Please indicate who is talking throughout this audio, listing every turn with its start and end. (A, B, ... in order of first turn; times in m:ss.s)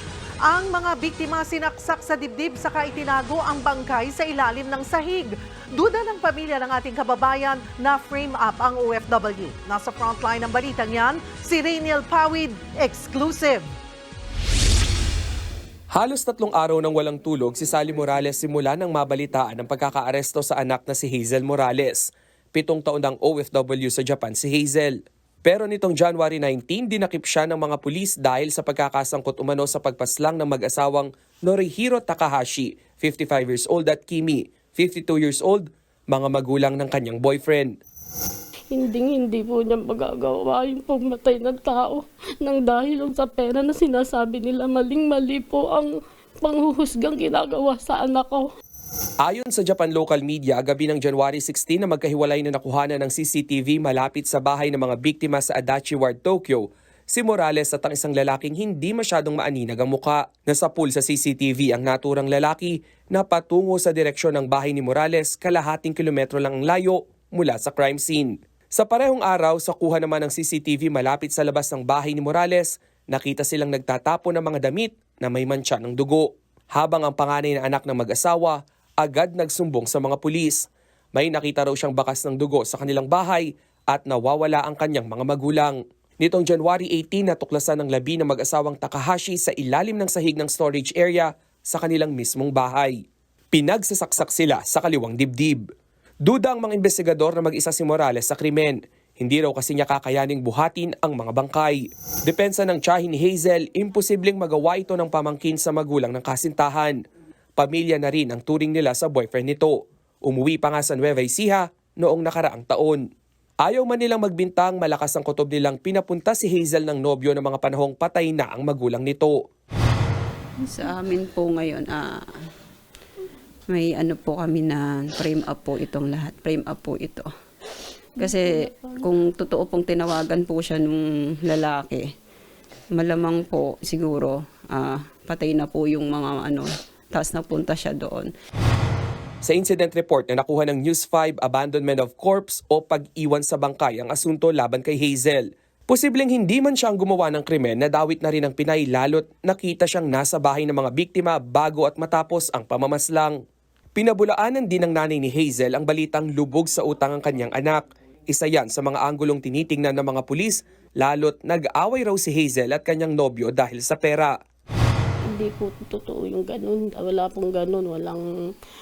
0:00.4-0:13.7 A
0:15.9-0:37.7 B
0:38.7-0:45.9 C
0:46.4-0:48.4 C
0:49.2-1:32.9 B
1:33.5-1:35.6 B
1:36.2-1:46.9 B
1:47.6-1:53.0 B
1:53.6-1:59.4 B
2:00.6-2:02.2 D
2:03.7-2:07.3 D
2:08.2-2:12.1 D
2:08.2-2:09.0 C
2:12.9-2:18.3 D
2:19.4-2:33.4 B
2:34.0-2:44.3 B
2:45.3-2:48.2 C